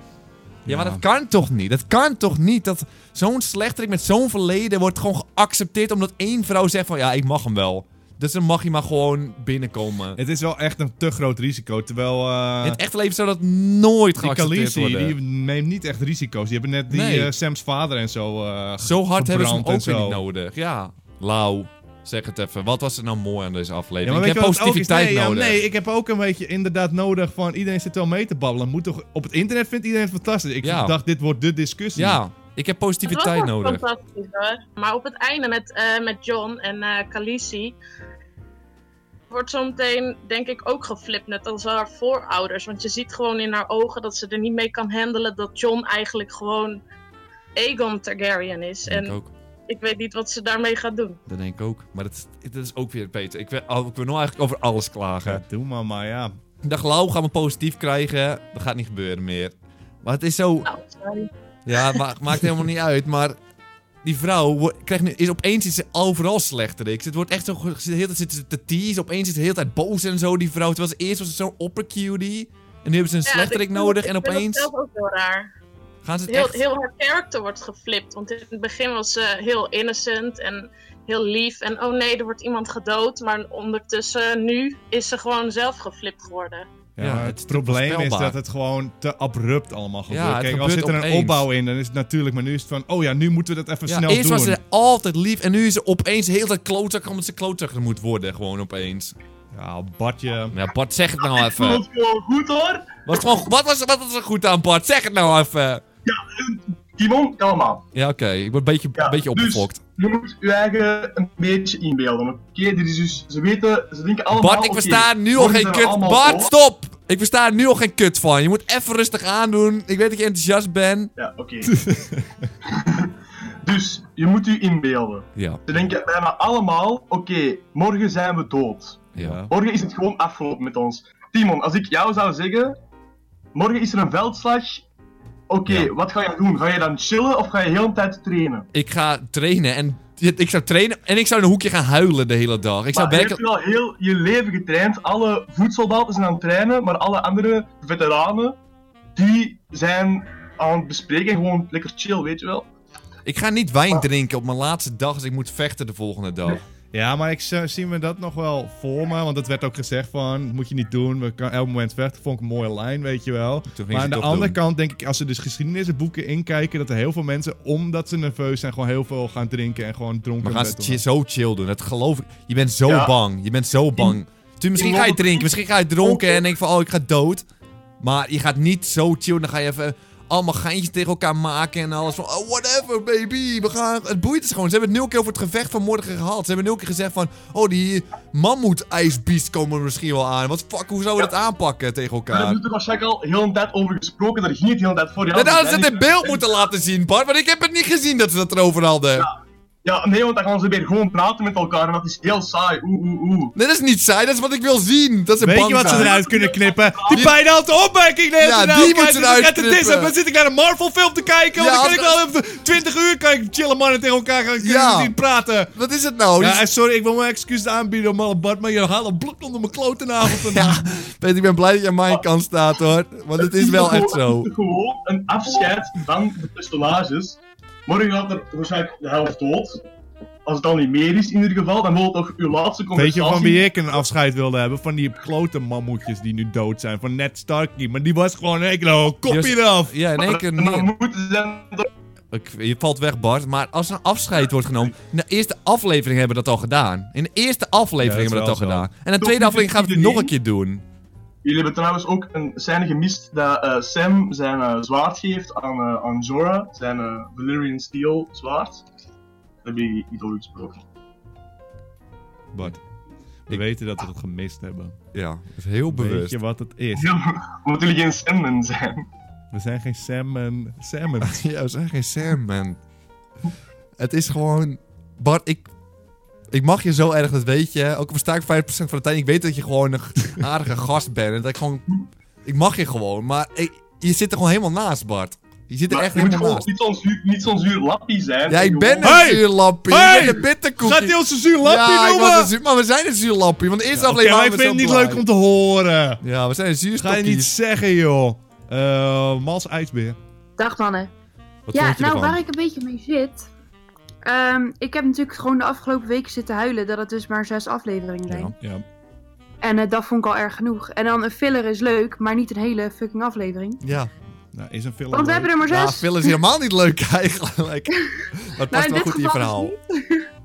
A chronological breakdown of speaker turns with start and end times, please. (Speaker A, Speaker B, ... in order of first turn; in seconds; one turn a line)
Speaker A: 0.7-1.0
Speaker B: 0.7-10.2
Speaker A: 10.2-12.8
Speaker B: 12.6-15.2
Speaker A: 14.2-20.2
Speaker B: 16.9-17.3
Speaker B: 18.8-25.6
Speaker A: 24.0-32.2
Speaker B: 30.6-31.0
Speaker B: 32.0-33.8
Speaker C: 33.1-37.8
Speaker C: 39.3-46.8
Speaker C: 47.6-49.2
Speaker B: 48.9-49.3
Speaker C: 49.7-51.2
Speaker B: 51.3-55.4
Speaker A: 55.2-56.3
Speaker B: 56.6-60.7
Speaker C: 60.6-61.3
Speaker B: 61.7-63.4
Speaker B: 64.0-74.7
Speaker C: 73.3-75.5
Speaker B: 76.0-76.6
Speaker C: 76.3-86.7
Speaker A: 87.0-94.6
Speaker B: 87.0-88.4
Speaker B: 90.1-91.5
Speaker B: 93.9-99.2
Speaker A: 99.5-100.5
Speaker B: 100.5-101.8
Speaker D: 101.2-103.0
Speaker B: 103.1-105.8
Speaker D: 106.1-107.8
Speaker B: 107.9-109.8
Speaker D: 109.0-116.5
Speaker B: 114.3-121.1
Speaker D: 121.2-121.7
Speaker A: 121.7-122.5
Speaker D: 122.7-123.1
Speaker D: 123.6-132.8
Speaker B: 125.3-125.6
Speaker B: 129.2-129.4
Speaker A: 129.2-129.5
Speaker D: 133.6-134.8
Speaker D: 135.5-138.7
Speaker B: 135.7-135.9
Speaker B: 138.7-143.4
Speaker D: 142.9-148.6
Speaker D: 149.2-152.7
Speaker B: 153.2-156.6
Speaker A: 156.9-171.0
Speaker B: 163.7-164.6
Speaker B: 170.4-177.4
Speaker D: 172.9-173.1
Speaker D: 174.8-175.5
Speaker D: 176.0-176.4
Speaker B: 178.0-192.6
Speaker D: 192.3-196.4
Speaker B: 195.3-199.3
Speaker D: 199.8-203.5
Speaker B: 203.6-206.2
Speaker A: 205.4-215.7
Speaker D: 205.8-207.3
Speaker B: 207.1-207.3
Speaker B: 208.4-210.1
Speaker B: 211.6-212.2
Speaker B: 214.6-215.1
Speaker B: 215.7-216.7
Speaker A: 216.4-220.9
Speaker B: 220.2-224.5
Speaker D: 223.4-229.8
Speaker D: 230.5-233.7
Speaker A: 232.9-240.0
Speaker B: 239.3-240.9
Speaker D: 240.2-241.9
Speaker B: 242.3-250.8
Speaker A: 248.0-248.9
Speaker D: 249.2-250.3
Speaker D: 251.4-258.8
Speaker D: 259.6-260.8
Speaker A: 262.5-262.8
Speaker A: 263.5-265.0
Speaker B: 265.1-266.4
Speaker A: 265.9-267.1
Speaker D: 267.0-269.1
Speaker A: 269.5-271.4
Speaker B: 271.2-272.8
Speaker B: 274.0-275.7
Speaker B: 276.5-286.7
Speaker D: 285.9-289.3
Speaker B: 288.5-295.2
Speaker A: 289.0-292.5
Speaker A: 293.9-296.2
Speaker B: 296.2-297.5
Speaker A: 297.0-300.2
Speaker E: 300.6-301.1
Speaker B: 301.7-302.4
Speaker E: 301.7-303.5
Speaker E: 304.2-308.5
Speaker B: 308.3-308.6
Speaker A: 308.6-308.9
Speaker E: 309.6-313.8
Speaker B: 313.8-314.1
Speaker A: 314.5-315.6
Speaker E: 315.1-316.4
Speaker B: 315.7-319.7
Speaker E: 318.7-320.3